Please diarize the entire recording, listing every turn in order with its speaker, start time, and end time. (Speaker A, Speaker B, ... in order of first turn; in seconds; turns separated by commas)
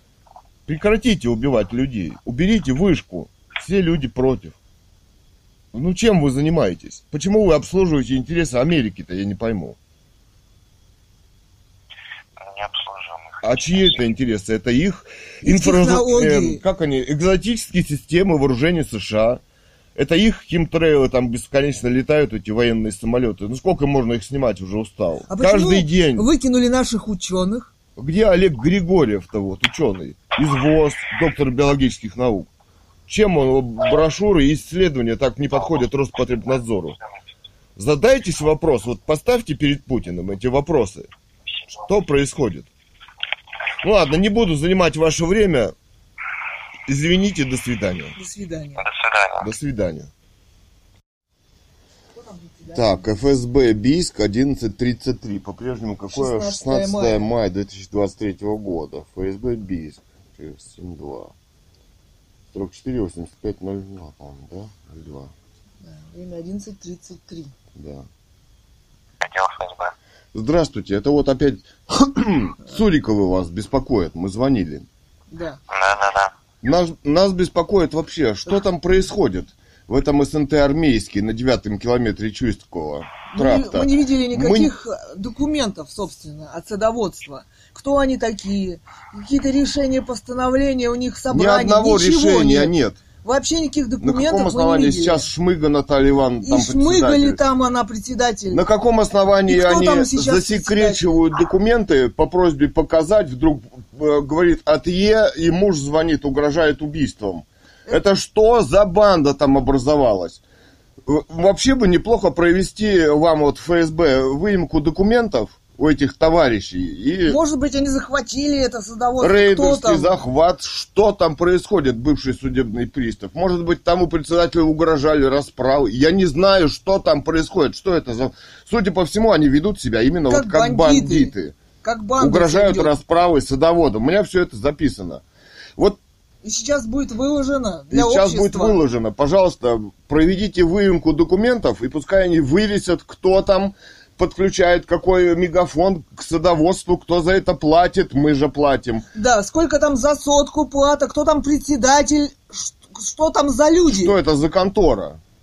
Speaker A: 0.7-4.5, Speaker A: 5.7-9.8, Speaker B: 12.4-14.0, Speaker A: 13.4-19.4, Speaker C: 15.4-16.6, Speaker A: 19.9-26.2, Speaker C: 25.3-27.7, Speaker A: 27.9-32.5, Speaker A: 33.1-37.0, Speaker A: 37.8-41.1, Speaker A: 41.8-42.7, Speaker A: 43.8-45.7, Speaker A: 46.9-48.1, Speaker C: 48.1-48.8, Speaker B: 48.8-49.5, Speaker A: 49.4-50.1, Speaker C: 52.1-53.1, Speaker A: 52.7-61.3, Speaker C: 56.1-57.3, Speaker A: 62.5-65.3, Speaker C: 65.8-67.5, Speaker A: 67.8-68.1, Speaker B: 69.2-69.9, Speaker A: 70.3-74.8, Speaker C: 75.3-75.6, Speaker B: 75.7-76.3, Speaker A: 76.6-84.7, Speaker C: 83.3-95.2, Speaker A: 91.3-93.0, Speaker A: 94.0-97.4, Speaker C: 96.4-98.6, Speaker A: 98.5-110.4, Speaker C: 99.5-101.0, Speaker A: 111.0-117.4, Speaker C: 117.3-120.1, Speaker A: 119.2-131.6, Speaker C: 130.3-132.9, Speaker A: 132.2-135.2, Speaker C: 136.4-138.8, Speaker A: 137.9-149.1, Speaker C: 149.1-154.1, Speaker A: 153.9-155.2